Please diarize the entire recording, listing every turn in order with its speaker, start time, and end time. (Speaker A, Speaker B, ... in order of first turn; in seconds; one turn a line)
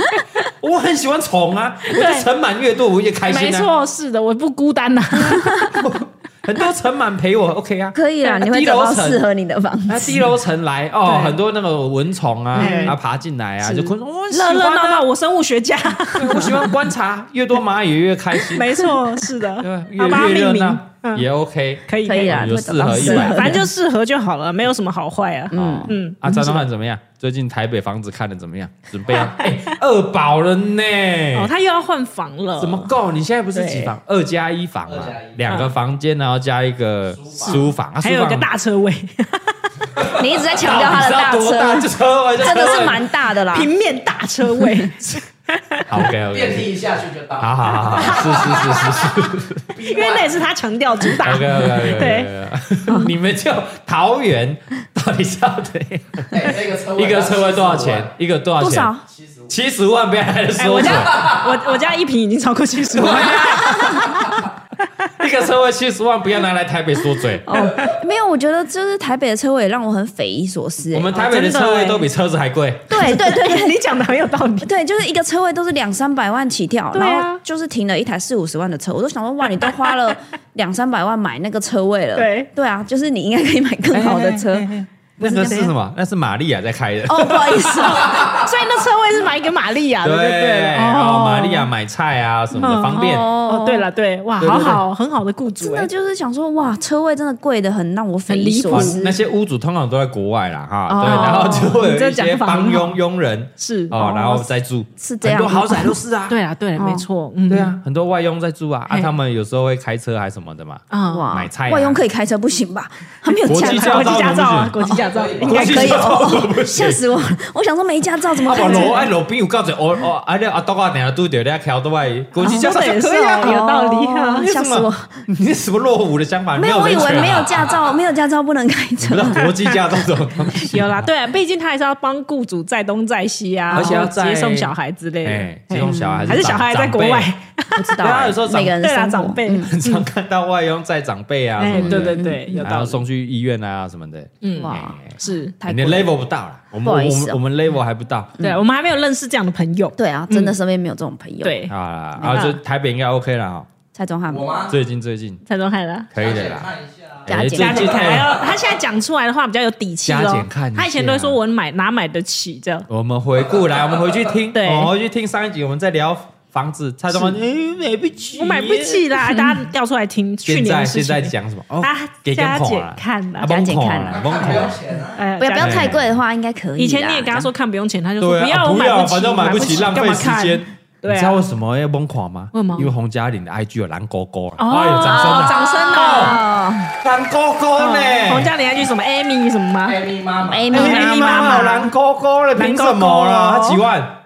Speaker A: 0.6-3.7
Speaker B: 1.9-2.3
Speaker B: 3.3-5.8
Speaker C: 5.2-5.7
Speaker A: 5.7-9.2
Speaker C: 7.9-10.3
Speaker A: 9.9-15.1
Speaker B: 11.0-11.4
Speaker C: 12.5-12.9
Speaker B: 12.6-13.0
Speaker B: 14.3-16.8
Speaker A: 16.1-18.9
Speaker B: 18.4-21.3
Speaker A: 19.6-23.6
Speaker B: 21.9-26.6
Speaker C: 22.0-23.6
Speaker C: 25.5-25.9
Speaker A: 25.5-31.5
Speaker B: 29.1-29.6
Speaker B: 31.3-32.9
Speaker A: 32.6-38.5
Speaker B: 33.5-33.9
Speaker D: 34.9-35.4
Speaker D: 37.1-37.6
Speaker B: 37.4-39.7
Speaker C: 40.0-43.7
Speaker A: 40.5-43.1
Speaker B: 43.5-46.0
Speaker C: 44.6-44.9
Speaker A: 45.9-46.8
Speaker D: 46.3-49.2
Speaker A: 47.4-49.7
Speaker B: 48.0-48.6
Speaker D: 49.7-50.3
Speaker B: 49.8-52.3
Speaker A: 51.2-58.9
Speaker D: 56.3-58.1
Speaker C: 58.6-59.0
Speaker D: 59.0-59.5
Speaker A: 59.5-61.4
Speaker B: 60.6-64.2
Speaker A: 62.9-64.2
Speaker A: 65.2-67.6
Speaker C: 67.4-71.2
Speaker B: 67.6-67.9
Speaker A: 70.9-73.0
Speaker B: 71.1-72.1
Speaker B: 72.9-74.7
Speaker C: 72.9-73.8
Speaker C: 74.6-84.7
Speaker B: 76.9-77.4
Speaker B: 79.6-79.9
Speaker B: 82.1-82.5
Speaker A: 83.9-88.2
Speaker B: 84.4-85.7
Speaker C: 85.3-85.6
Speaker C: 87.1-88.4
Speaker B: 88.0-91.7
Speaker A: 90.0-93.3
Speaker B: 92.6-95.9
Speaker C: 92.9-93.9
Speaker A: 94.4-94.8
Speaker C: 95.5-99.2
Speaker B: 98.3-99.0
Speaker A: 98.7-106.4
Speaker C: 100.9-101.8
Speaker B: 101.0-103.0
Speaker B: 103.6-103.9
Speaker C: 103.9-106.0
Speaker B: 106.3-107.8
Speaker C: 106.8-107.0
Speaker A: 107.5-112.0
Speaker B: 110.9-111.3
Speaker C: 111.1-114.9
Speaker B: 113.2-116.3
Speaker A: 113.5-114.8
Speaker D: 114.9-115.6
Speaker A: 115.4-117.0
Speaker C: 115.5-119.1
Speaker B: 118.5-119.0
Speaker A: 118.5-123.6
Speaker B: 122.4-124.5
Speaker C: 122.4-125.2
Speaker A: 124.3-127.9
Speaker C: 126.6-129.5
Speaker A: 129.0-131.1
Speaker B: 130.6-138.0
Speaker C: 133.7-134.0
Speaker A: 133.7-137.3
Speaker C: 135.8-136.5
Speaker C: 137.7-139.7
Speaker A: 138.0-138.8
Speaker B: 138.8-140.1
Speaker A: 139.6-148.3
Speaker B: 141.6-143.0
Speaker C: 141.7-142.7
Speaker B: 144.4-145.5
Speaker C: 144.6-145.0
Speaker C: 145.6-146.1
Speaker C: 146.8-147.4
Speaker B: 148.4-150.6
Speaker C: 150.0-152.6
Speaker B: 151.4-151.7
Speaker A: 151.7-153.7
Speaker B: 152.3-152.6
Speaker C: 153.9-154.6
Speaker D: 154.3-154.7
Speaker A: 154.7-155.4
Speaker B: 155.5-156.1
Speaker A: 156.1-156.7
Speaker D: 156.2-158.6
Speaker A: 157.2-158.4
Speaker B: 157.3-162.9
Speaker C: 157.3-158.0
Speaker A: 160.1-161.4
Speaker A: 162.9-169.1
Speaker D: 163.4-164.3
Speaker B: 164.5-164.9
Speaker B: 168.3-173.5
Speaker A: 170.4-174.8
Speaker C: 173.4-174.4
Speaker D: 174.1-175.3
Speaker B: 175.2-176.0
Speaker C: 175.4-177.5
Speaker A: 175.6-176.2
Speaker B: 176.8-181.4
Speaker A: 178.2-186.4
Speaker B: 182.5-182.9
Speaker B: 184.6-186.4
Speaker C: 185.1-186.9
Speaker A: 187.0-188.5
Speaker B: 187.8-190.1
Speaker D: 189.8-190.8
Speaker C: 190.4-191.9
Speaker B: 190.7-191.9
Speaker A: 190.7-194.2
Speaker B: 192.6-193.8